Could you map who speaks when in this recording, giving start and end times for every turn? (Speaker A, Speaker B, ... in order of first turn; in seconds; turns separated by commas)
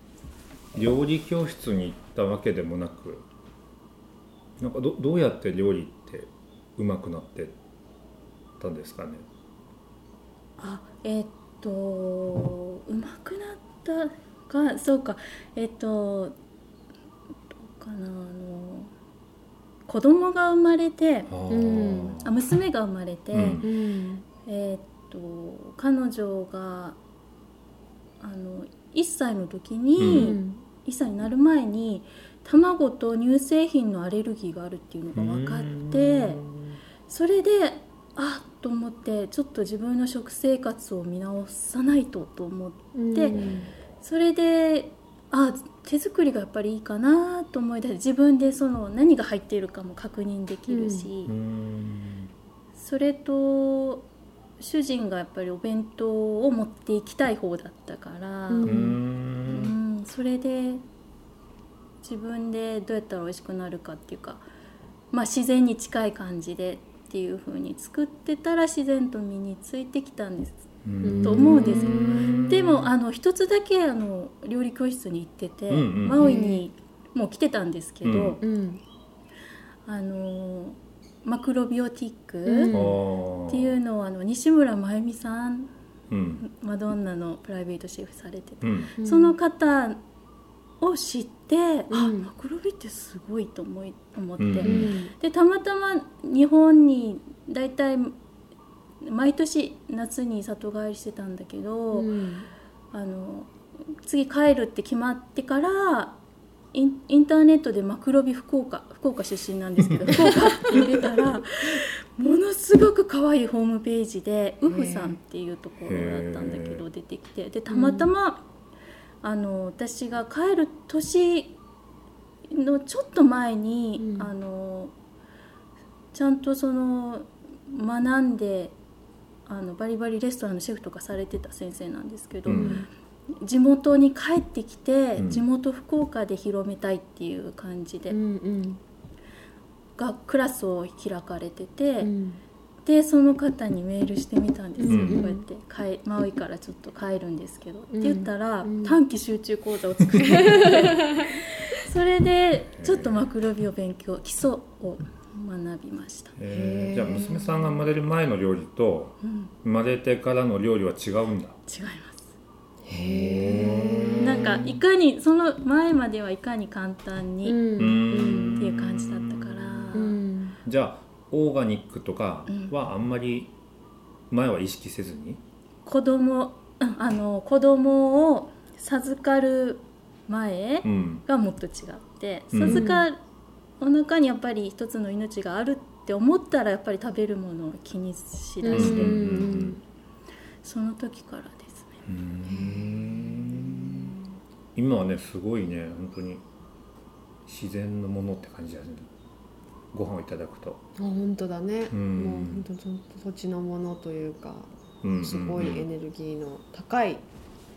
Speaker A: 0.7-3.3, Speaker A: 4.6-7.6, Speaker A: 8.6-9.3, Speaker B: 10.6-16.4, Speaker B: 17.6-18.9, Speaker B: 19.9-21.3, Speaker A: 21.3-22.3, Speaker C: 21.5-22.1, Speaker B: 22.1-23.7, Speaker A: 23.3-23.7, Speaker C: 23.6-24.2, Speaker B: 24.4-27.0, Speaker B: 28.2-36.4, Speaker A: 30.0-30.4, Speaker C: 30.1-30.6, Speaker A: 35.1-36.8, Speaker B: 37.1-43.4, Speaker C: 42.9-43.7, Speaker A: 43.3-43.7, Speaker B: 44.0-51.3, Speaker C: 50.7-51.1, Speaker A: 51.3-52.3, Speaker B: 52.8-54.1, Speaker B: 54.6-58.9, Speaker C: 58.5-59.0, Speaker A: 58.6-59.8, Speaker B: 59.5-60.8, Speaker B: 62.0-64.5, Speaker B: 65.1-70.7, Speaker A: 70.8-72.9, Speaker C: 71.0-72.3, Speaker B: 71.2-78.4, Speaker A: 75.7-76.3, Speaker C: 76.2-76.6, Speaker A: 78.0-78.4, Speaker C: 78.4-78.8, Speaker B: 79.9-82.7, Speaker C: 82.5-83.0, Speaker A: 82.7-83.8, Speaker B: 83.5-85.7, Speaker A: 86.1-86.4, Speaker B: 86.4-90.0, Speaker A: 88.6-88.9, Speaker C: 89.0-89.3, Speaker B: 90.8-98.2, Speaker C: 91.9-92.3, Speaker A: 94.4-94.9, Speaker C: 94.6-95.1, Speaker B: 99.0-102.1, Speaker C: 101.9-102.5, Speaker B: 102.9-106.2, Speaker B: 106.7-118.4, Speaker C: 114.7-115.2, Speaker A: 115.9-116.8, Speaker C: 117.7-118.1, Speaker B: 119.2-121.6, Speaker B: 122.5-124.9, Speaker C: 124.0-124.3, Speaker B: 126.1-128.8, Speaker B: 129.5-132.9, Speaker A: 132.5-132.8, Speaker C: 132.5-132.9, Speaker B: 133.4-138.2, Speaker A: 135.2-135.4, Speaker C: 138.1-138.8, Speaker B: 140.0-142.1, Speaker C: 142.0-142.4, Speaker B: 142.8-156.3, Speaker C: 144.8-145.4, Speaker A: 144.9-145.3, Speaker C: 147.9-149.0, Speaker C: 150.2-151.2, Speaker A: 152.7-153.3, Speaker A: 156.4-161.6, Speaker C: 156.5-157.8, Speaker B: 159.2-159.5, Speaker B: 161.7-162.3, Speaker C: 162.8-164.5, Speaker A: 162.9-164.8, Speaker B: 164.2-167.6, Speaker C: 167.4-168.6, Speaker A: 167.8-170.0, Speaker B: 168.4-170.2, Speaker C: 169.9-170.6, Speaker A: 170.7-173.5, Speaker A: 174.3-175.4, Speaker B: 175.8-183.2, Speaker A: 180.8-181.2, Speaker A: 182.5-182.9, Speaker C: 182.7-183.1, Speaker B: 183.8-189.4, Speaker C: 188.6-189.8, Speaker A: 188.7-189.8, Speaker B: 190.6-192.0, Speaker A: 192.1-194.2, Speaker C: 192.5-194.2, Speaker A: 194.8-196.4, Speaker A: 197.5-199.1, Speaker A: 199.9-200.8, Speaker C: 201.0-207.2, Speaker A: 201.9-202.7, Speaker A: 205.0-205.9